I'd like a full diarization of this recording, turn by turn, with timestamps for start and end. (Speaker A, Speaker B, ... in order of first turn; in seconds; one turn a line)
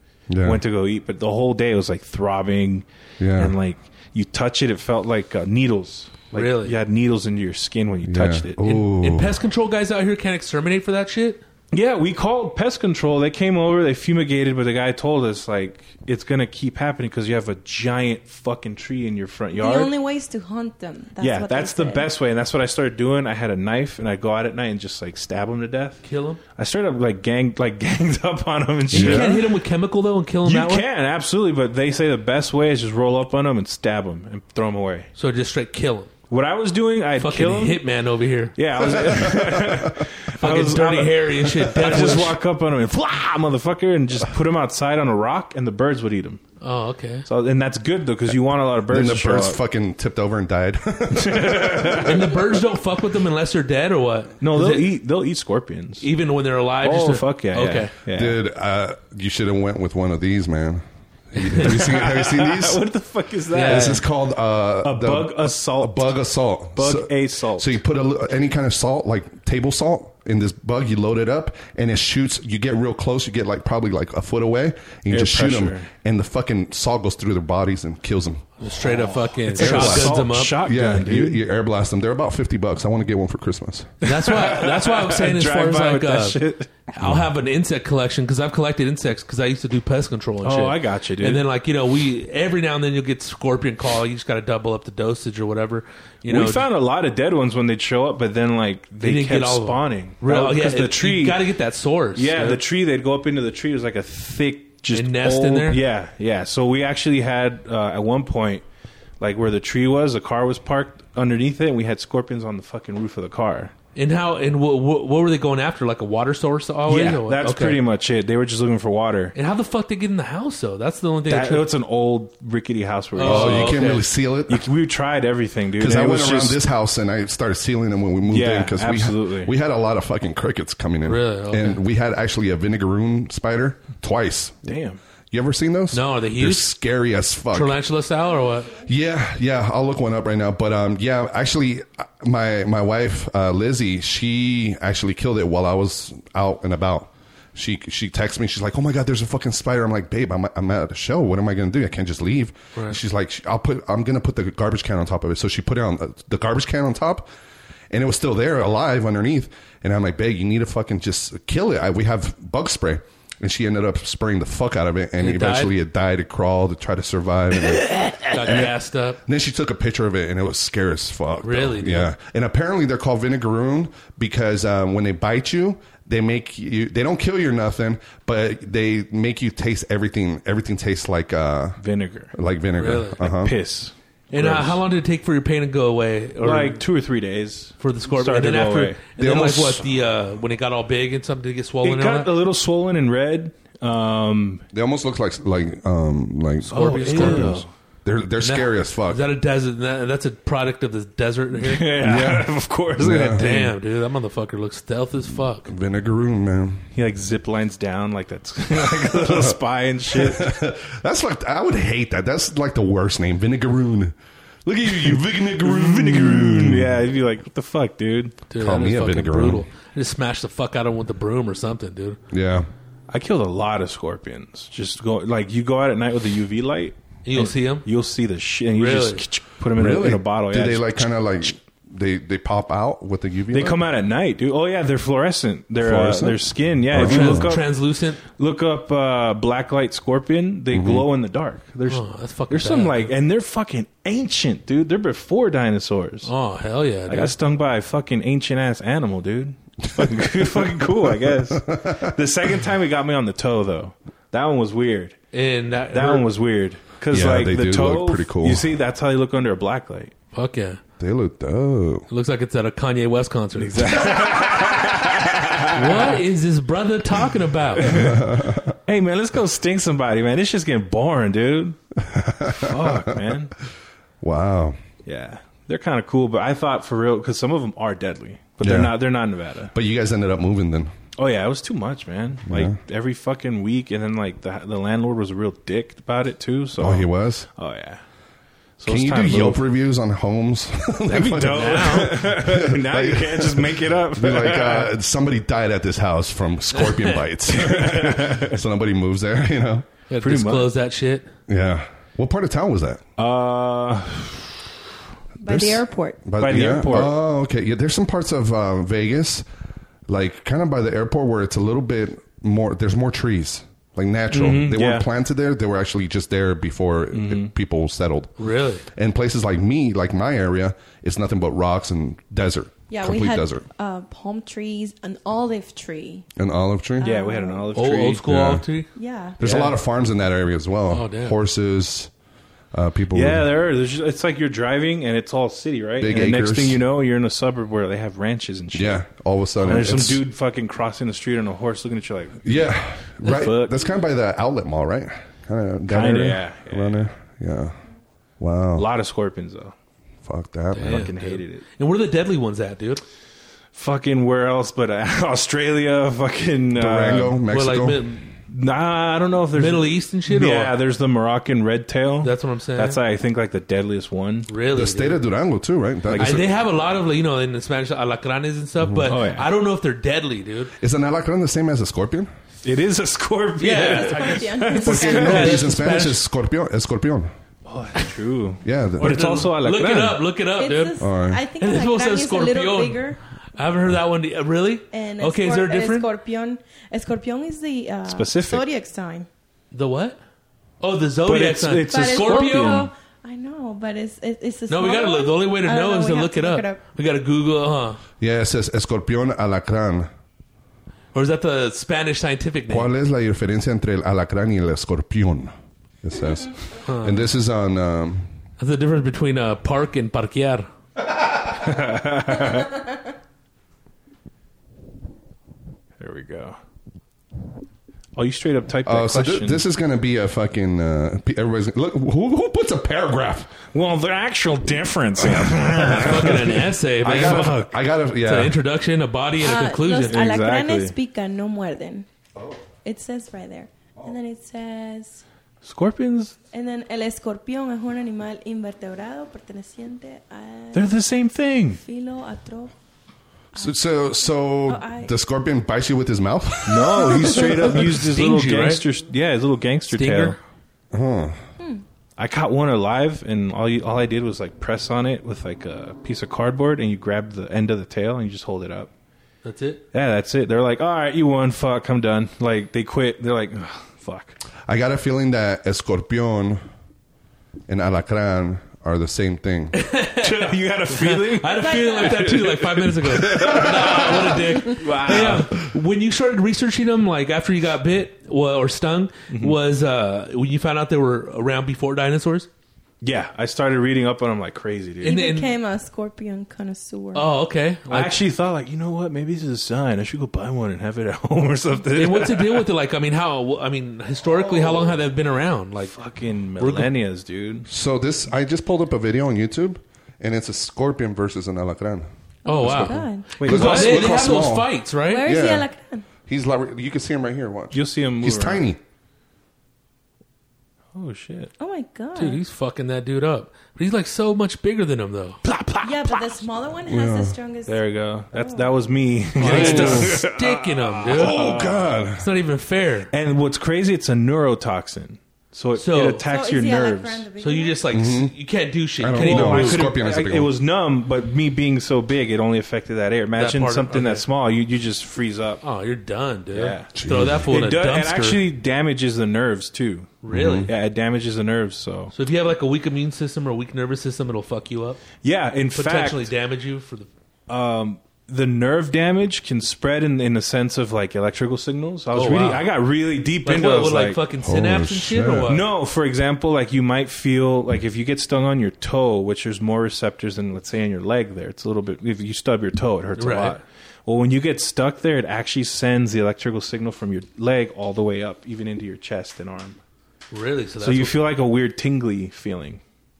Speaker A: 0.3-0.6
Speaker B: 0.4-8.8
Speaker A: 3.2-3.5
Speaker C: 6.3-6.7
Speaker A: 8.0-9.4
Speaker C: 8.6-11.4
Speaker B: 11.7-19.9
Speaker D: 19.5-22.1
Speaker B: 21.2-29.4
Speaker C: 26.0-26.4
Speaker A: 28.9-29.4
Speaker C: 28.9-30.8
Speaker B: 30.4-35.1
Speaker C: 35.1-36.1
Speaker B: 36.3-37.8
Speaker C: 37.2-38.5
Speaker B: 38.5-46.4
Speaker A: 39.0-39.9
Speaker C: 40.4-42.4
Speaker C: 46.6-47.2
Speaker B: 47.2-49.6
Speaker A: 48.9-52.3
Speaker B: 51.1-52.4
Speaker C: 52.0-54.9
Speaker B: 54.4-56.1
Speaker C: 56.0-57.9
Speaker B: 56.8-58.4
Speaker A: 58.1-62.8
Speaker B: 61.6-64.0
Speaker C: 63.5-64.0
Speaker A: 63.6-78.5
Speaker B: 64.8-66.1
Speaker B: 66.7-67.8
Speaker B: 75.1-75.9
Speaker C: 78.6-80.5
Speaker B: 78.8-81.4
Speaker A: 79.5-83.9
Speaker C: 84.0-96.7
Speaker B: 84.0-86.7
Speaker B: 90.4-91.4
Speaker B: 96.2-101.5
Speaker C: 99.0-102.6
Speaker B: 102.1-108.6
Speaker C: 104.9-105.8
Speaker B: 109.2-113.7
Speaker C: 114.0-117.8
Speaker B: 116.9-119.3
Speaker C: 119.3-121.7
Speaker B: 121.3-123.8
Speaker C: 123.2-124.0
Speaker A: 123.2-124.7
Speaker B: 124.5-126.6
Speaker A: 125.8-134.6
Speaker B: 128.3-129.5
Speaker C: 131.1-131.8
Speaker B: 134.6-135.0
Speaker A: 135.3-137.8
Speaker C: 135.9-136.7
Speaker C: 137.5-138.8
Speaker A: 138.8-157.3
Speaker A: 157.9-181.8
Speaker C: 165.2-165.7
Speaker C: 168.3-169.2
Speaker C: 171.4-172.1
Speaker B: 181.8-182.3
Speaker A: 182.3-183.6
Speaker C: 182.8-183.2
Speaker B: 183.2-184.8
Speaker C: 184.3-186.8
Speaker B: 186.4-189.0
Speaker C: 187.8-192.3
Speaker A: 189.2-189.8
Speaker B: 191.8-194.6
Speaker A: 194.7-199.2
Speaker B: 196.7-197.7
Speaker C: 196.7-197.5
Speaker C: 198.4-201.9
Speaker B: 201.6-203.7
Speaker A: 202.0-203.5
Speaker C: 203.3-205.7
Speaker A: 205.6-206.8
Speaker B: 206.9-210.6
Speaker A: 208.9-209.6
Speaker A: 210.1-217.0
Speaker B: 215.6-218.4
Speaker C: 218.5-222.2
Speaker A: 218.6-219.7
Speaker A: 222.3-222.7
Speaker B: 223.1-231.1
Speaker C: 227.2-227.8
Speaker C: 228.7-229.2
Speaker A: 229.7-233.8
Speaker B: 233.5-246.3
Speaker A: 235.8-237.5
Speaker C: 236.9-238.2
Speaker A: 240.7-241.1
Speaker C: 241.9-243.1
Speaker C: 246.2-247.3
Speaker B: 247.1-255.2
Speaker A: 250.0-250.7
Speaker A: 251.3-252.1
Speaker C: 255.3-256.2
Speaker B: 255.9-260.1
Speaker A: 257.1-258.6
Speaker C: 260.3-260.8
Speaker A: 261.0-262.1
Speaker C: 262.1-263.9
Speaker B: 263.6-266.2
Speaker C: 265.7-267.9
Speaker B: 267.8-271.8
Speaker A: 267.8-268.7
Speaker A: 272.0-273.2
Speaker B: 272.5-273.5
Speaker A: 274.2-274.8
Speaker B: 275.1-279.7
Speaker A: 278.6-279.0
Speaker A: 279.7-280.9
Speaker B: 281.2-288.0
Speaker A: 282.5-282.8
Speaker A: 286.8-287.5
Speaker B: 288.8-289.6
Speaker A: 288.9-299.9
Speaker B: 291.1-294.9
Speaker C: 291.4-292.2
Speaker C: 296.7-297.2
Speaker B: 297.5-298.6
Speaker C: 300.1-301.3
Speaker B: 300.2-300.7
Speaker A: 301.5-303.0
Speaker B: 303.2-304.6
Speaker D: 305.4-306.2
Speaker A: 305.4-309.4
Speaker B: 306.4-307.1
Speaker A: 310.1-318.3
Speaker B: 314.3-315.1
Speaker B: 317.1-317.5
Speaker C: 318.4-318.8
Speaker A: 318.9-323.6
Speaker D: 322.9-326.2
Speaker A: 326.4-327.1
Speaker D: 327.0-327.7
Speaker B: 327.0-328.2
Speaker C: 327.7-328.9
Speaker A: 328.2-328.6
Speaker D: 328.9-329.4
Speaker A: 329.4-332.1
Speaker B: 329.4-329.7
Speaker C: 330.9-331.4
Speaker A: 332.7-333.5
Speaker B: 333.1-339.0
Speaker A: 336.0-336.8
Speaker A: 338.7-340.2
Speaker B: 339.6-342.6
Speaker A: 342.4-347.8
Speaker B: 343.2-343.8
Speaker B: 345.9-347.0
Speaker A: 348.4-348.9
Speaker B: 348.8-349.7
Speaker A: 350.2-351.1
Speaker C: 350.7-353.0
Speaker B: 350.8-351.6
Speaker B: 353.7-357.4
Speaker A: 356.7-358.1
Speaker C: 357.5-358.3
Speaker B: 358.5-364.5
Speaker C: 359.5-360.7
Speaker C: 362.2-363.0
Speaker C: 364.5-365.2
Speaker A: 364.7-366.5
Speaker B: 366.1-366.4
Speaker C: 366.2-370.7
Speaker A: 368.8-369.1
Speaker B: 369.1-369.5
Speaker A: 370.8-372.3
Speaker B: 372.6-375.6
Speaker C: 373.6-376.2
Speaker D: 373.7-375.6
Speaker A: 374.8-377.3
Speaker B: 377.6-380.2
Speaker A: 378.6-379.4
Speaker C: 379.0-381.0
Speaker D: 380.6-383.2
Speaker A: 381.0-381.4
Speaker C: 381.6-386.1
Speaker D: 384.9-389.3
Speaker B: 388.1-388.6
Speaker C: 389.7-390.2
Speaker C: 390.8-392.9
Speaker B: 391.3-392.9
Speaker D: 391.9-396.8
Speaker C: 394.7-398.0
Speaker A: 398.2-400.1
Speaker C: 401.1-402.9
Speaker A: 402.7-405.5
Speaker A: 406.0-408.3
Speaker C: 406.8-407.3
Speaker C: 408.6-410.7
Speaker B: 411.4-412.8
Speaker B: 416.0-416.6
Speaker B: 418.1-419.6
Speaker A: 418.8-423.5
Speaker B: 423.7-427.7
Speaker A: 425.2-426.1
Speaker C: 425.9-427.7
Speaker A: 427.0-428.6
Speaker C: 428.2-430.3
Speaker D: 429.4-432.1
Speaker B: 430.1-430.9
Speaker D: 432.8-435.2
Speaker B: 435.6-436.4
Speaker D: 436.5-441.0
Speaker B: 440.7-441.8
Speaker D: 441.8-442.7
Speaker D: 443.5-443.8
Speaker A: 443.6-447.6
Speaker D: 444.6-445.1
Speaker B: 446.6-450.4
Speaker C: 448.1-448.8
Speaker C: 449.9-450.4
Speaker A: 450.9-451.4
Speaker B: 452.2-458.9
Speaker C: 459.4-459.8
Speaker B: 459.9-464.4
Speaker A: 464.7-466.6
Speaker A: 467.7-469.7
Speaker C: 469.7-482.5
Speaker B: 470.2-475.5
Speaker D: 471.6-472.1
Speaker A: 475.2-475.4
Speaker B: 479.3-479.6
Speaker B: 483.0-485.2
Speaker C: 485.0-485.5
Speaker D: 485.0-487.3
Speaker C: 487.1-488.2
Speaker B: 487.9-492.7
Speaker C: 491.9-495.9
Speaker B: 494.3-495.0
Speaker B: 495.9-497.7
Speaker C: 496.6-496.9
Speaker A: 497.7-502.1
Speaker D: 502.4-503.3
Speaker C: 502.4-505.3
Speaker A: 502.6-504.7
Speaker B: 503.4-504.2
Speaker D: 505.1-506.0
Speaker A: 505.2-505.7
Speaker A: 506.3-508.8
Speaker B: 507.7-508.6
Speaker B: 510.9-511.5
Speaker D: 511.6-512.4
Speaker C: 512.1-515.4
Speaker B: 515.4-516.2
Speaker D: 515.8-517.8
Speaker A: 516.9-517.4
Speaker B: 517.6-521.9
Speaker D: 518.3-518.8
Speaker C: 519.4-521.4
Speaker A: 519.5-520.2
Speaker D: 519.5-519.8
Speaker A: 521.1-522.2
Speaker C: 522.2-523.1
Speaker B: 523.1-527.2
Speaker C: 525.7-526.2
Speaker D: 526.2-527.9
Speaker C: 527.4-529.8
Speaker A: 527.9-528.3
Speaker A: 529.0-530.5
Speaker B: 529.2-535.6
Speaker C: 533.4-534.2
Speaker C: 535.6-538.4
Speaker B: 536.5-536.9
Speaker A: 536.9-537.5
Speaker B: 537.5-542.1
Speaker C: 540.2-540.7
Speaker A: 540.3-540.7
Speaker C: 542.1-545.0
Speaker B: 545.2-546.3
Speaker C: 545.7-547.1
Speaker B: 547.5-554.2
Speaker C: 552.1-552.7
Speaker C: 553.4-555.6
Speaker A: 554.4-555.5
Speaker B: 555.5-569.8
Speaker C: 563.2-563.6
Speaker C: 570.3-571.2
Speaker B: 570.8-572.8